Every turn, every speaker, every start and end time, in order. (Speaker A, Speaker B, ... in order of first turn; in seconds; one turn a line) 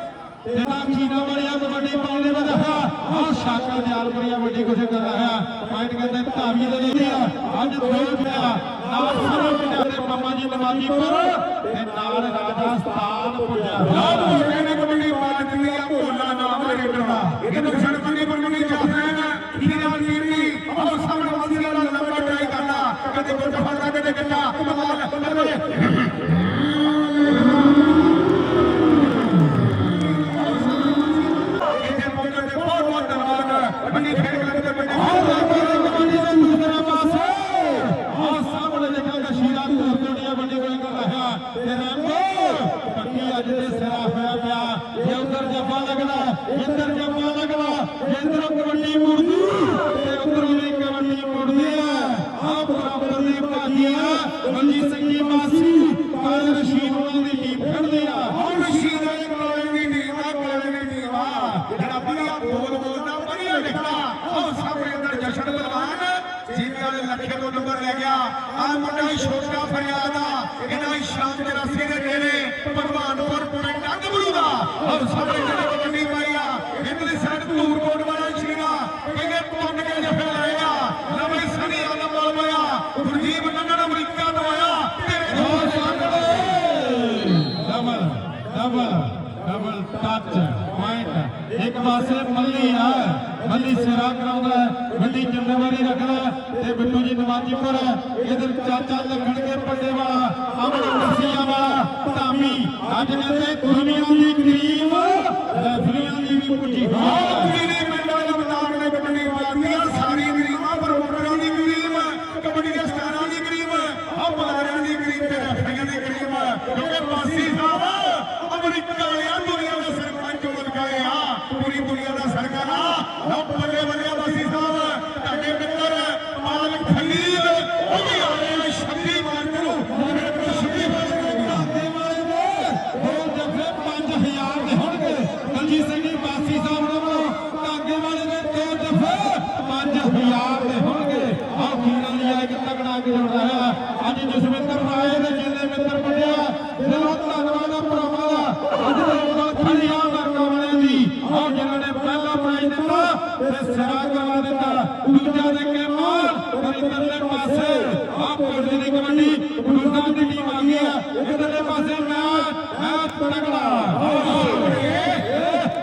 Speaker A: 0.5-14.3
Speaker B: 13.9-26.1
Speaker B: 30.3-35.8
Speaker A: 35.0-58.4
Speaker B: 58.3-86.4
Speaker A: 85.3-107.6
Speaker B: 106.9-131.7
Speaker A: 130.2-165.7
Speaker B: 164.1-165.5